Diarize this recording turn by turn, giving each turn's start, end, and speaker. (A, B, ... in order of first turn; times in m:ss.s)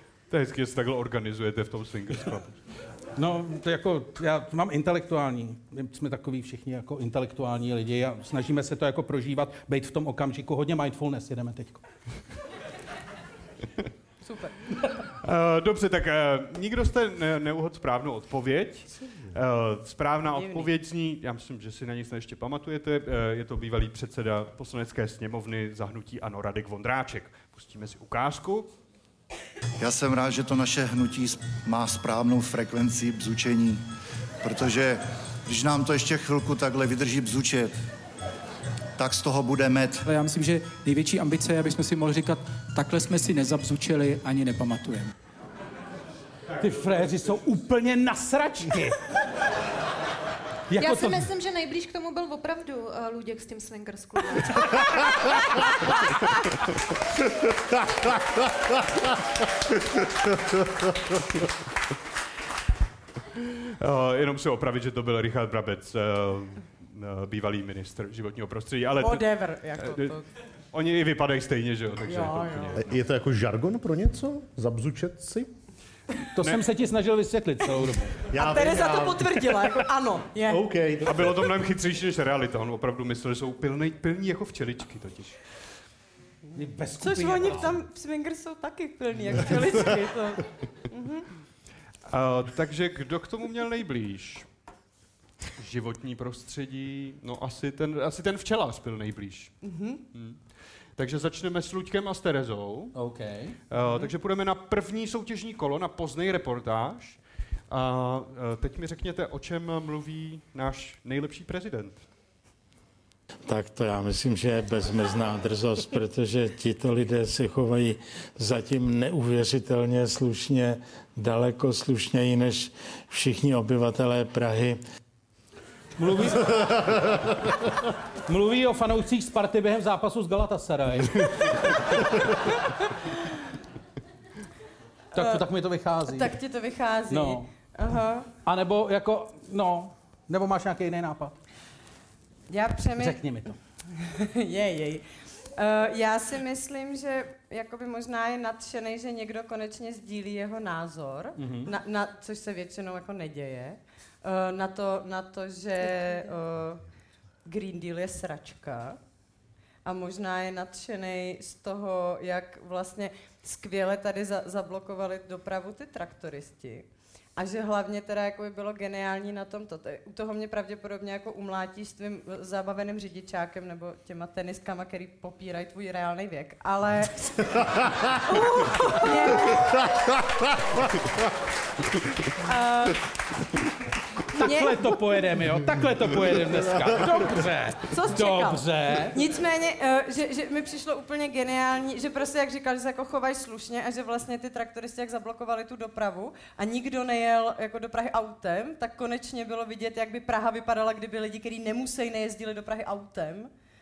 0:00.3-0:02.6 A
0:03.2-0:11.8 B
0:14.2-0:14.6 C
0:15.2-0:28.7 A
0:20.4-0:20.7 C
0:29.8-0:33.8 D
0:34.4-0:37.7 D
0:39.0-0:40.0 D
0:40.0-0:45.1 E
0:46.6-0:49.0 B
0:50.7-0:51.2 B
0:50.8-0:56.0 F
0:57.3-0:59.3 G
1:00.0-1:01.2 G
1:03.8-1:10.2 A
1:09.0-1:10.2 C
1:10.7-1:12.8 A
1:12.1-1:12.8 C
1:12.8-1:15.5 G
1:16.4-1:18.3 B
1:16.4-1:16.7 A
1:18.3-1:19.3 G
1:18.3-1:20.7 C
1:20.5-1:21.4 G
1:21.1-1:25.4 A
1:26.6-1:27.8 B
1:27.0-1:31.2 C
1:32.1-1:34.5 A
1:35.6-1:39.6 A
1:39.6-1:40.0 C
1:40.1-1:40.4 A
1:41.0-1:43.0 A
1:42.9-1:43.6 B
1:43.7-1:47.2 A
1:43.8-1:44.1 C
1:47.7-1:52.0 A
1:53.5-2:04.8 H
2:06.0-2:07.0 B
2:08.3-2:12.0 B
2:15.2-2:15.5 C
2:15.2-2:16.4 B
2:16.0-2:18.3 C
2:17.1-2:17.5 B
2:18.4-2:21.4 B
2:22.5-2:23.2 C
2:23.0-2:23.6 B
2:23.9-2:25.0 C
2:25.6-2:36.8 C
2:31.4-2:31.7 B
2:37.5-2:39.0 C
2:39.8-2:46.9 C
2:47.4-2:59.8 C
2:59.6-3:01.1 G
3:02.4-3:03.0 C
3:04.3-3:09.2 B
3:04.4-3:04.9 C
3:07.9-3:23.5 C